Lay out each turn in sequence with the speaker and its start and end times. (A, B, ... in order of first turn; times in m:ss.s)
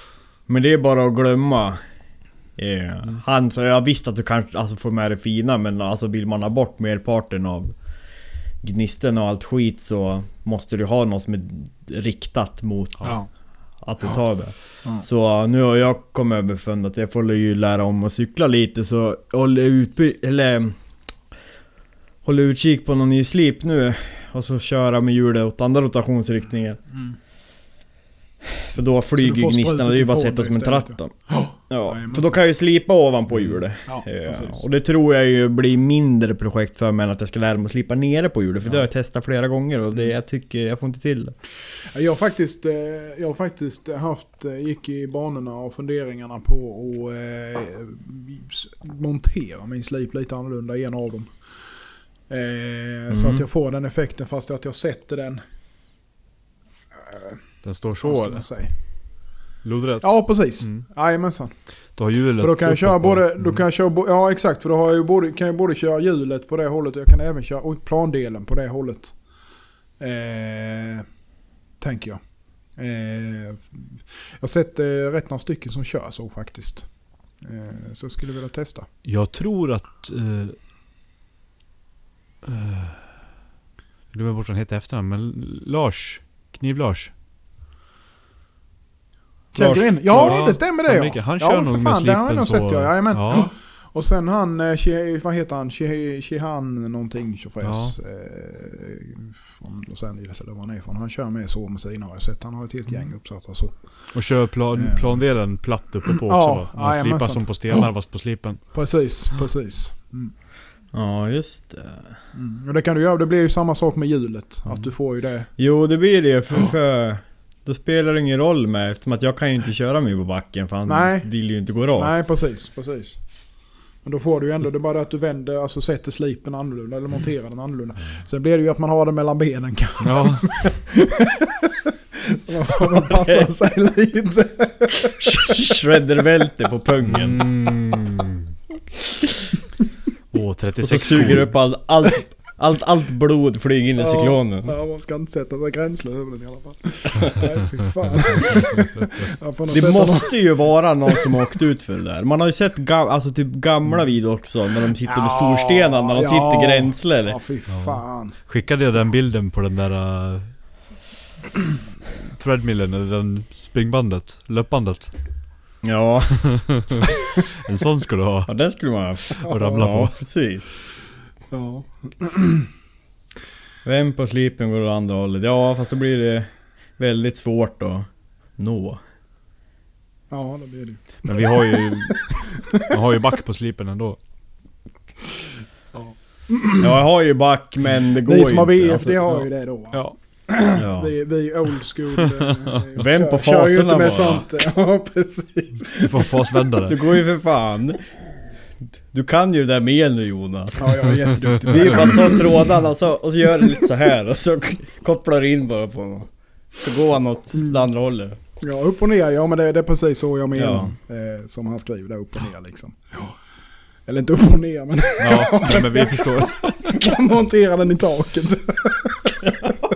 0:00.5-0:21.3 A
0:13.0-0:13.3 B
0:22.2-0:26.9 A
0:26.9-0:27.2 B
0:28.7-0:41.4 A
0:29.2-0:32.4 B
0:33.3-0:33.6 C
0:33.8-0:34.6 B
0:41.8-0:55.4 B
0:53.1-0:53.4 A
0:56.9-0:59.2 B
0:57.6-1:03.6 C
1:00.0-1:11.2 B
1:11.8-1:18.9 B
1:19.0-1:20.6 C
1:22.4-1:23.1 C
1:24.1-1:27.1 C
1:29.5-1:45.6 B
1:29.6-1:30.4 A
1:30.1-1:33.5 C
1:37.6-1:38.0 C
1:44.1-1:49.0 C
1:46.2-1:48.0 B
1:48.7-1:50.3 B
1:50.9-1:52.2 A
1:52.3-1:55.6 B
1:55.6-2:02.1 A
2:00.9-2:11.7 B
2:10.0-2:10.7 C
2:12.3-2:15.5 B
2:15.5-2:17.5 A
2:17.0-2:18.3 C
2:20.3-2:21.7 C
2:20.8-2:24.8 A
2:24.0-2:30.9 B
2:29.7-2:37.4 A
2:35.0-2:38.4 B
2:37.7-2:40.8 C
2:42.3-2:45.7 C
2:45.8-2:46.9 A
2:46.4-2:46.8 C
2:47.7-2:50.3 C
2:48.5-2:50.7 A
2:49.5-2:49.9 B
2:51.5-2:52.7 B
2:53.8-2:59.0 A
3:00.3-3:01.9 B
3:01.3-3:04.2 C
3:05.9-3:06.9 B
3:06.8-3:09.4 A
3:08.2-3:16.2 B
3:09.3-3:10.7 C
3:10.8-3:11.2 A
3:13.0-3:14.5 A
3:16.0-3:17.0 C
3:16.9-3:18.4 A
3:19.1-3:28.4 A
3:20.8-3:22.5 B
3:28.6-3:33.5 B
3:30.5-3:31.0 A
3:34.0-3:39.4 B
3:35.2-3:36.8 C